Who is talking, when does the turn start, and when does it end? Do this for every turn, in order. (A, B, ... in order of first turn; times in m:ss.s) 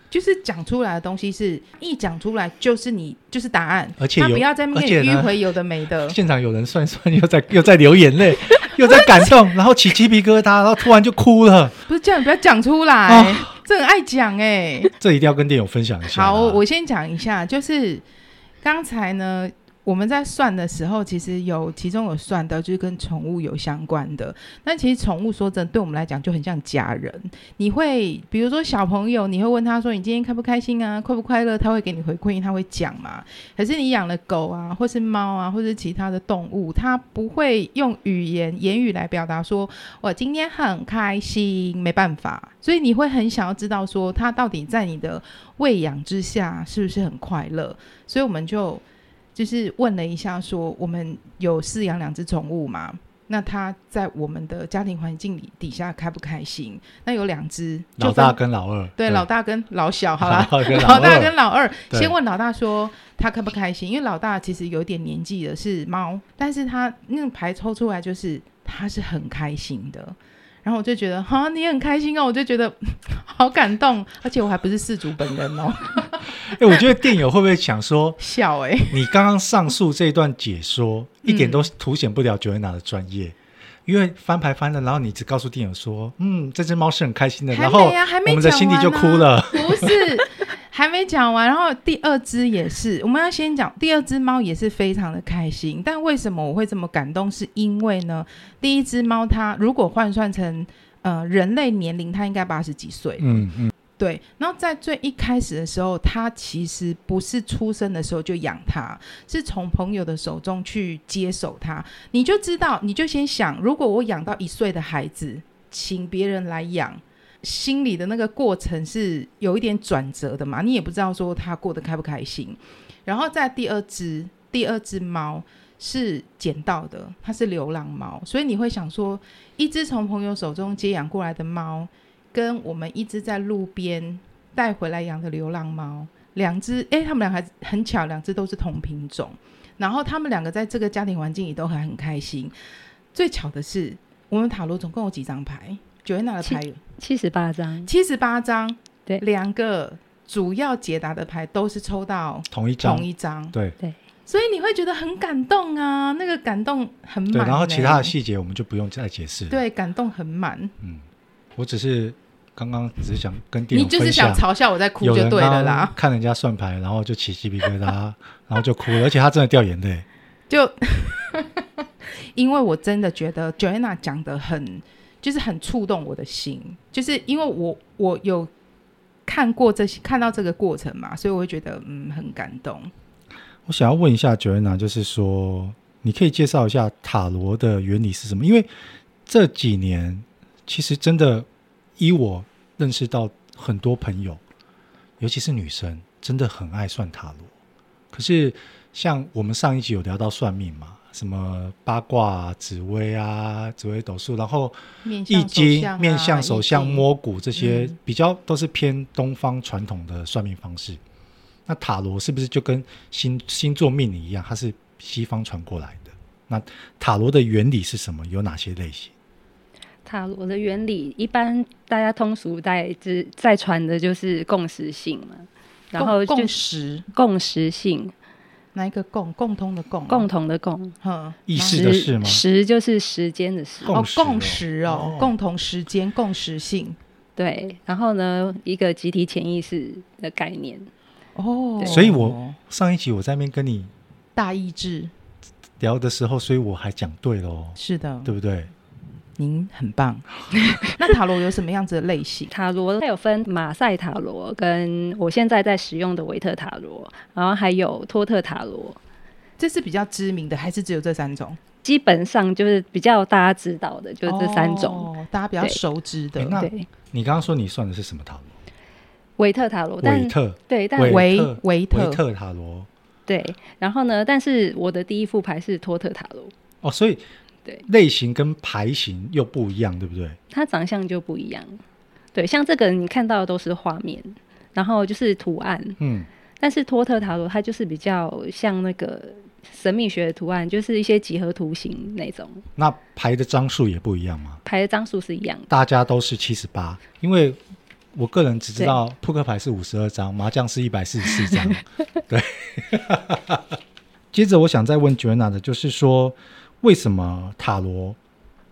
0:00.1-0:06.2 A
0:04.0-0:05.4 B
0:06.0-0:11.8 B
0:11.9-0:14.9 A
0:13.1-0:13.5 B
0:15.0-0:16.6 B
0:16.1-0:18.0 A
0:18.6-0:48.8 A
0:49.4-0:58.4 A
0:58.0-0:59.2 B
0:59.0-1:16.3 A
1:00.2-1:01.4 B
1:16.4-1:18.2 B
1:18.2-1:19.0 A
1:18.9-1:23.4 B
1:21.2-1:21.7 A
1:23.9-1:30.0 B
1:27.5-1:43.4 A
1:43.2-1:43.7 B
1:44.0-2:22.5 A
2:23.1-2:26.8 A
2:26.4-2:27.9 C
2:27.9-2:33.5 A
2:32.5-2:33.8 B
2:34.3-2:38.1 A
2:37.3-2:39.6 B
2:39.5-2:40.7 A
2:41.6-2:44.4 B
2:43.7-2:46.0 A
2:45.0-2:50.0 B
2:50.5-2:51.6 A
2:52.4-2:58.5 A
2:59.2-3:02.9 A
3:03.6-3:08.7 B
3:09.2-3:11.5 B
3:12.0-3:14.4 B
3:15.2-3:17.5 B
3:18.1-3:31.0 B
3:25.0-3:27.0 A
3:27.6-3:27.9 A
3:31.6-3:39.1 B
3:40.0-3:46.5 C
3:46.0-3:47.0 A
3:47.1-3:48.1 C
3:48.8-3:50.3 A
3:50.1-3:51.0 C
3:51.0-3:51.8 A
3:51.5-3:52.4 B
3:51.6-3:53.9 C
3:53.8-3:55.3 B
3:53.9-3:57.0 A
3:57.4-4:00.9 C
4:01.4-4:02.6 A
4:01.9-4:03.9 B
4:04.4-4:05.1 A
4:05.8-4:08.7 B
4:07.8-4:08.3 A
4:09.4-4:10.3 A
4:10.8-4:12.5 A
4:12.5-4:19.0 C
4:19.6-4:21.6 A
4:21.8-4:25.1 C
4:24.2-4:26.6 A
4:26.4-4:28.5 B
4:26.5-4:26.9 C
4:29.4-4:31.2 C
4:30.0-4:32.9 B
4:31.1-4:32.2 A
4:33.3-4:36.5 C
4:36.8-4:37.2 B
4:37.9-4:40.4 B
4:40.5-4:41.8 C
4:42.3-4:46.0 C
4:46.0-4:46.3 B
4:46.6-4:52.6 C
4:52.8-4:54.6 B
4:54.6-4:55.7 C
4:55.7-4:57.6 B
4:58.1-5:03.8 B
5:04.3-5:08.2 B